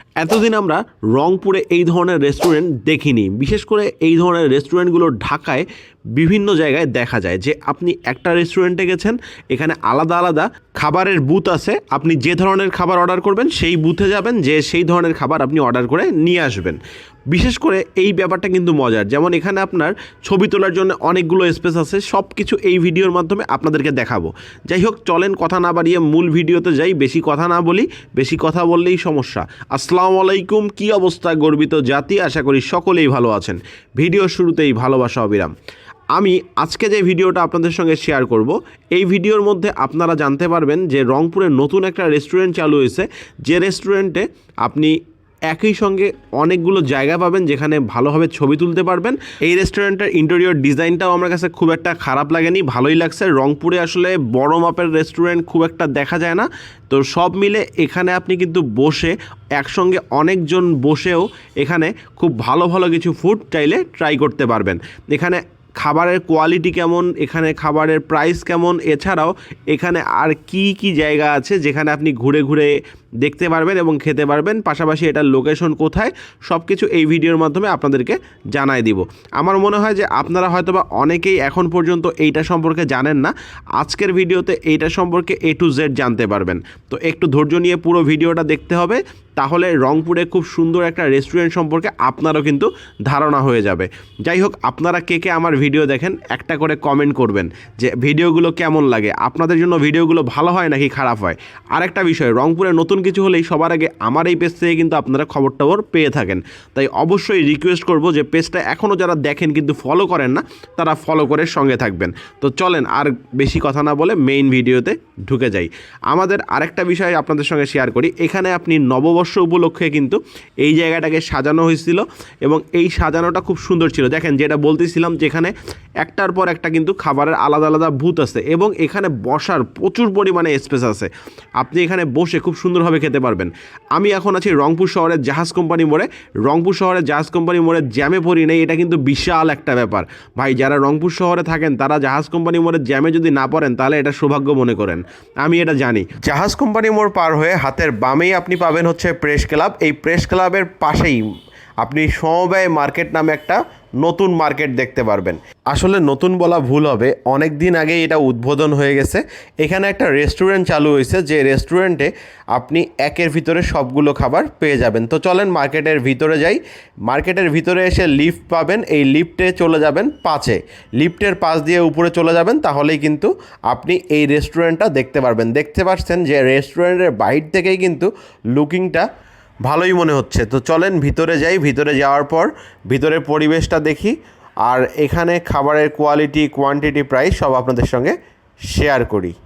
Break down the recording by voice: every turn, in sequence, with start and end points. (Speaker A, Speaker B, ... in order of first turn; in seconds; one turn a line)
Speaker A: 0.2-16.8
Speaker A: 17.3-35.5
Speaker A: 36.1-44.9
Speaker A: 45.5-151.2
Speaker A: 151.8-179.1
Speaker A: 179.7-188.2
Speaker A: 188.7-189.3